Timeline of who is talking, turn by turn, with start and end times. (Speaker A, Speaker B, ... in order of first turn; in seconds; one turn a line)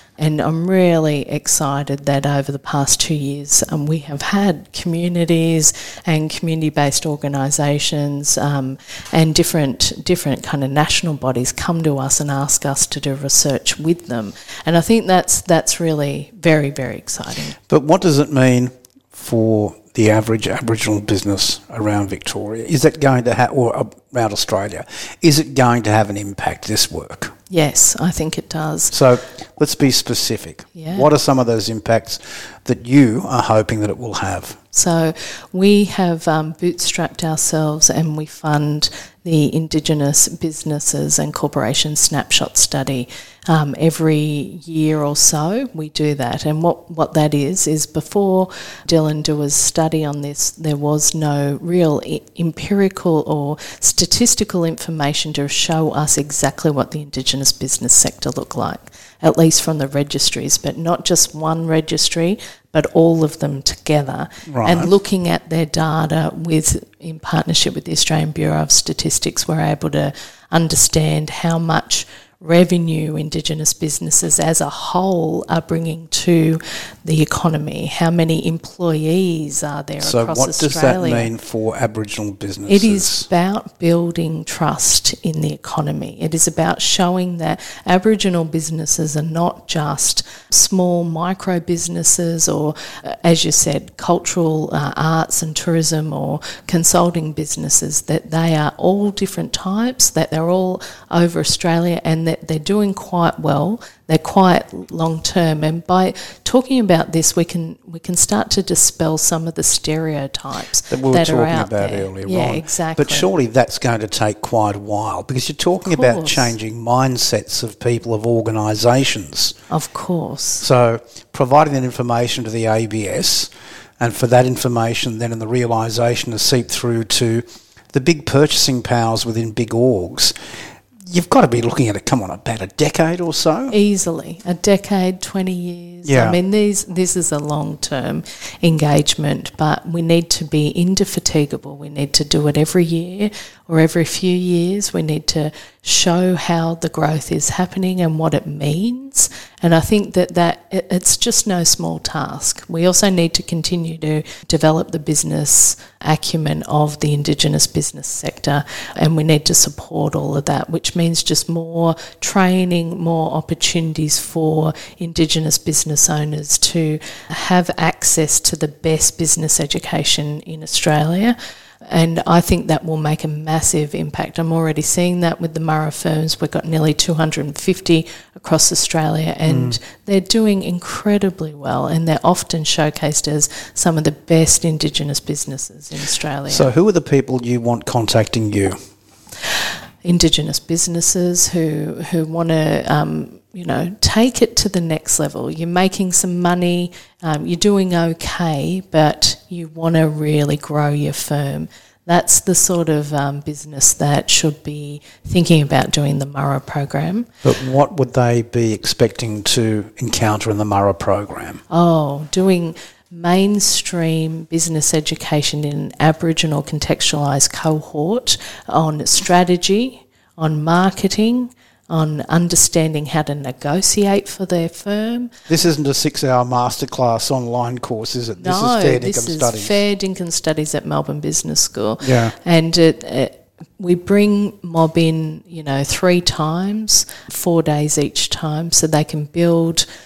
Speaker A: 0.2-17.6
Speaker B: 17.7-27.3
Speaker A: 27.5-28.9
Speaker B: 28.9-34.6
Speaker A: 30.8-31.1
Speaker A: 34.7-81.3
Speaker B: 64.5-64.9
Speaker B: 80.0-83.3
Speaker A: 82.7-113.3
Speaker B: 110.9-119.6
Speaker A: 115.8-116.5
Speaker A: 119.7-120.7
Speaker B: 120.6-130.3
Speaker B: 131.1-133.7
Speaker A: 133.7-186.7
Speaker B: 136.1-136.4
Speaker B: 179.5-179.8
Speaker B: 186.5-188.8
Speaker A: 190.0-207.3
Speaker B: 207.4-211.6
Speaker A: 211.7-225.3
Speaker B: 225.5-229.8
Speaker A: 228.4-239.9
Speaker B: 232.0-232.3